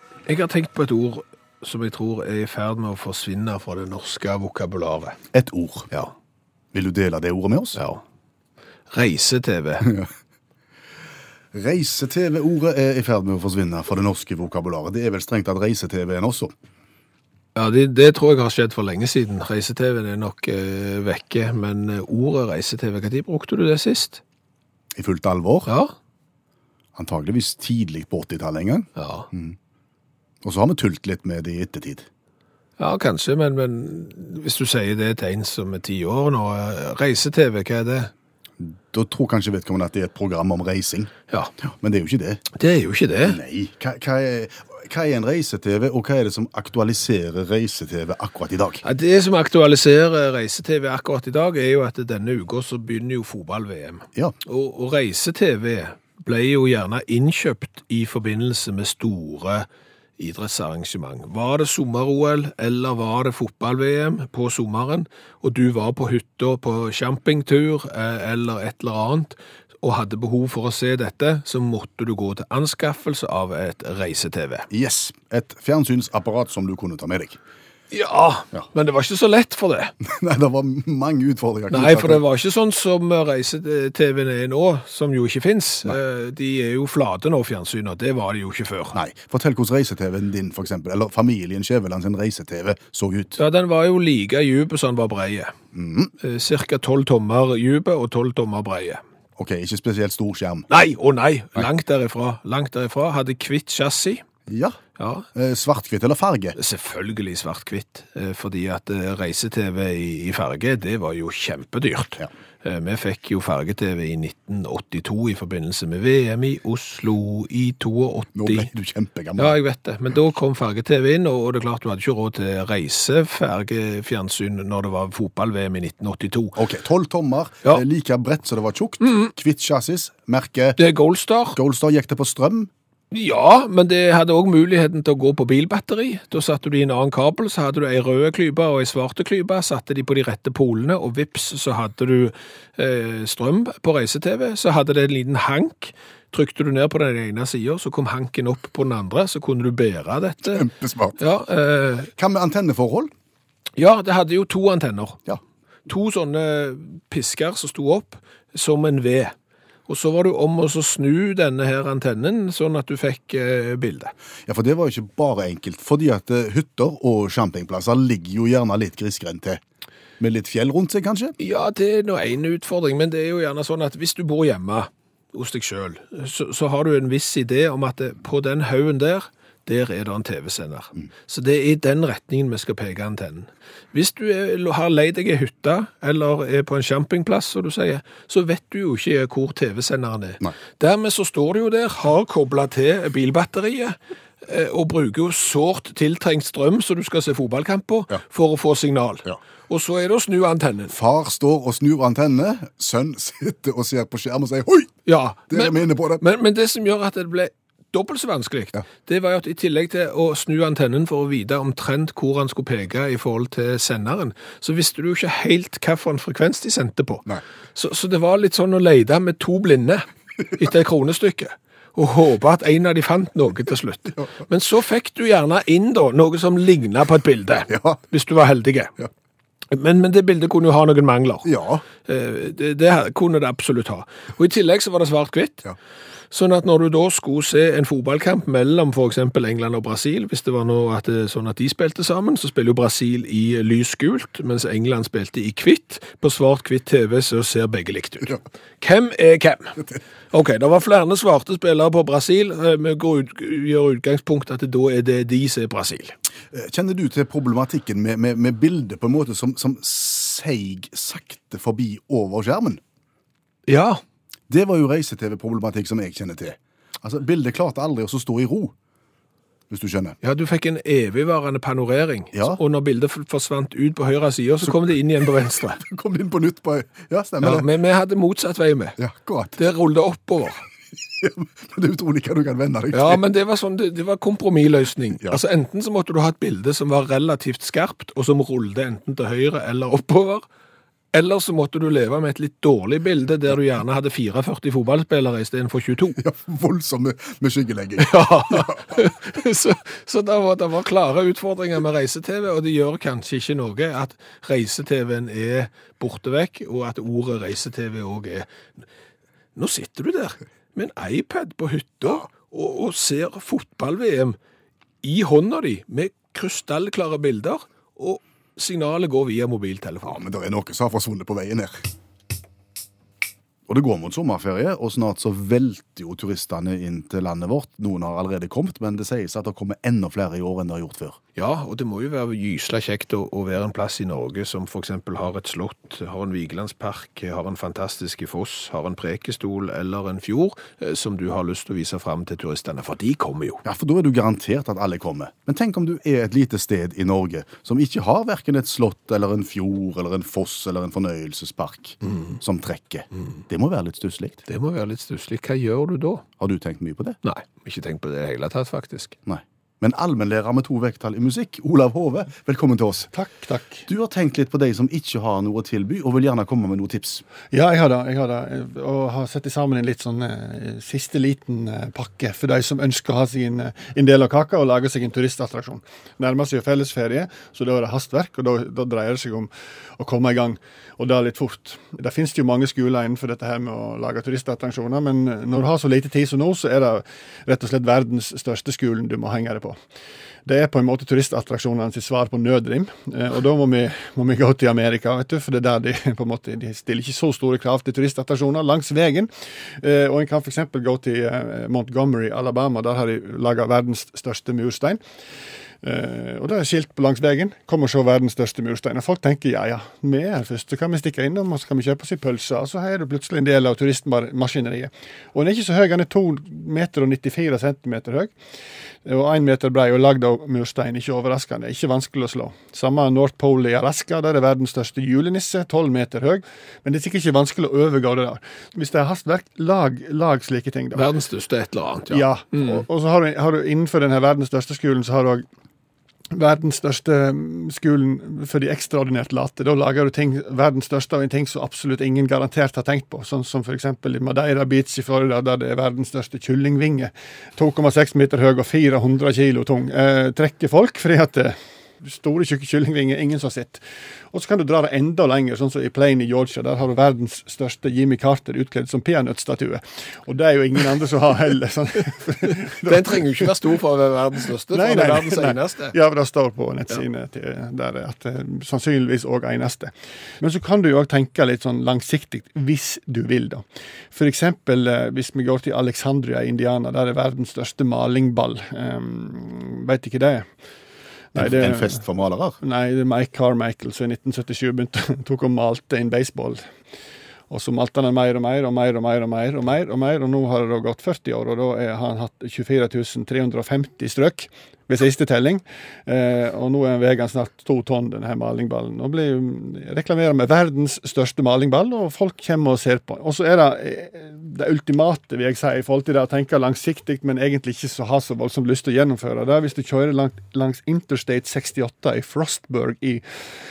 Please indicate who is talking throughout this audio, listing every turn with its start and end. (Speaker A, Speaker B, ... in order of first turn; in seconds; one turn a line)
Speaker A: 0.3-5.2
Speaker B: 5.3-5.9
Speaker B: 6.7-7.8
Speaker A: 7.8-8.0
Speaker A: 8.9-9.9
Speaker B: 11.5-16.5
Speaker A: 17.6-24.2
Speaker B: 24.9-25.7
Speaker A: 25.7-25.9
Speaker B: 26.9-29.6
Speaker A: 29.0-29.3
Speaker B: 30.4-32.1
Speaker A: 32.8-38.1
Speaker B: 38.6-42.4
Speaker A: 42.6-43.4
Speaker B: 43.2-48.8
Speaker A: 48.8-59.7
Speaker A: 60.2-74.7
Speaker B: 74.7-77.4
Speaker A: 77.9-80.0
Speaker B: 80.0-82.2
Speaker A: 81.7-89.0
Speaker B: 88.9-93.4
Speaker A: 93.4-95.5
Speaker B: 95.7-96.1
Speaker A: 96.2-99.0
Speaker B: 99.4-100.7
Speaker A: 100.7-104.2
Speaker B: 104.5-104.8
Speaker A: 105.0-105.3
Speaker B: 105.3-106.6
Speaker A: 106.6-118.7
Speaker B: 118.3-119.6
Speaker A: 119.4-126.6
Speaker B: 126.6-130.8
Speaker A: 129.0-129.3
Speaker A: 130.8-131.6
Speaker B: 131.6-132.7
Speaker A: 133.1-152.1
Speaker B: 150.4-151.2
Speaker B: 152.2-153.1
Speaker A: 153.8-155.2
Speaker A: 155.9-159.3
Speaker A: 159.9-164.1
Speaker B: 164.5-169.6
Speaker B: 170.2-171.3
Speaker A: 171.4-200.9
Speaker B: 200.9-204.9
Speaker A: 205.1-229.0
Speaker B: 205.5-206.2
Speaker B: 227.7-228.0
Speaker A: 229.7-231.5
Speaker B: 231.4-231.8
Speaker A: 232.0-235.7
Speaker A: 236.3-256.1
Speaker B: 256.5-262.8
Speaker A: 263.7-264.0
Speaker B: 264.5-268.7
Speaker B: 269.7-270.2
Speaker A: 270.2-275.8
Speaker B: 272.3-272.6
Speaker B: 275.8-277.7
Speaker A: 277.4-279.0
Speaker B: 279.0-279.6
Speaker A: 279.6-280.7
Speaker B: 281.2-283.2
Speaker A: 282.9-290.4
Speaker A: 291.1-296.2
Speaker B: 296.2-299.1
Speaker A: 298.0-308.5
Speaker A: 309.6-314.4
Speaker A: 315.0-320.2
Speaker B: 320.1-321.8
Speaker B: 323.7-331.2
Speaker A: 331.4-343.6
Speaker B: 343.6-354.4
Speaker A: 354.5-356.3
Speaker B: 356.4-357.2
Speaker A: 357.2-359.2
Speaker B: 359.3-363.1
Speaker C: 363.1-363.9
Speaker B: 363.9-367.2
Speaker C: 367.5-389.8
Speaker C: 390.5-405.0
Speaker C: 405.8-418.3
Speaker C: 419.1-431.1
Speaker A: 430.9-432.8
Speaker C: 432.1-435.4
Speaker C: 436.3-463.5
Speaker A: 462.5-466.0
Speaker C: 464.7-480.5
Speaker C: 481.3-482.0
Speaker B: 481.4-482.6
Speaker C: 482.6-486.6
Speaker C: 487.5-513.4